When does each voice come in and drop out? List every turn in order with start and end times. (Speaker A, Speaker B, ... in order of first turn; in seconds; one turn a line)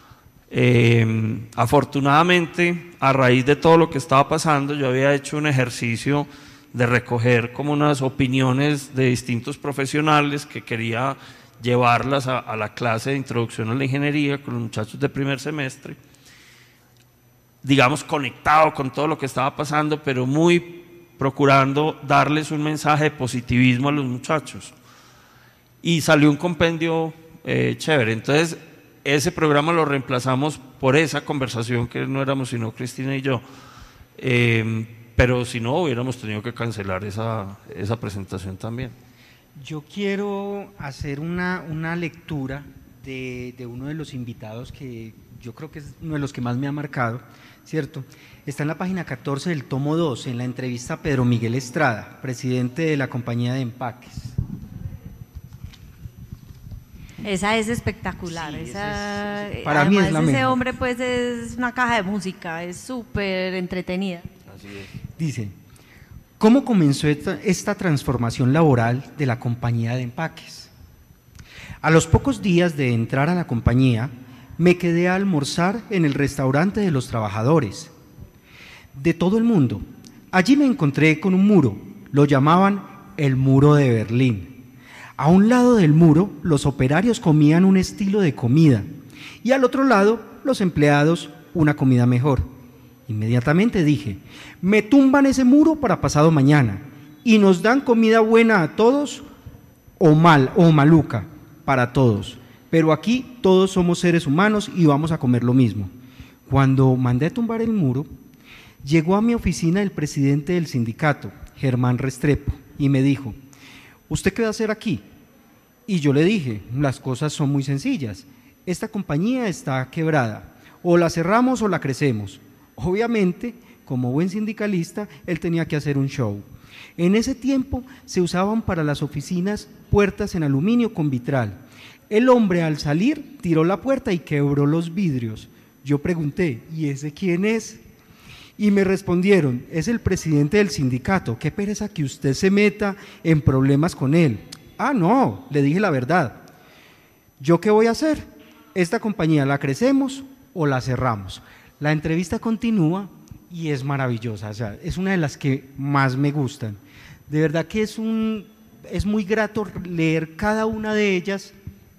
Speaker A: 0.5-16.0
Speaker A: 17.6-24.7
Speaker A: 25.8-33.4
Speaker A: 34.2-38.9
Speaker B: 39.5-54.4
Speaker C: 57.2-64.3
Speaker A: 58.5-58.9
Speaker B: 58.7-60.6
Speaker A: 64.5-64.9
Speaker B: 65.2-65.5
Speaker B: 66.4-70.7
Speaker B: 71.8-77.9
Speaker B: 78.9-84.6
Speaker B: 85.2-88.9
Speaker B: 89.4-92.5
Speaker B: 93.1-99.2
Speaker B: 100.0-105.9
Speaker B: 106.5-108.1
Speaker B: 108.8-113.3
Speaker B: 114.1-115.0
Speaker B: 115.9-126.5
Speaker B: 127.0-137.8
Speaker B: 138.6-146.4
Speaker B: 147.4-161.5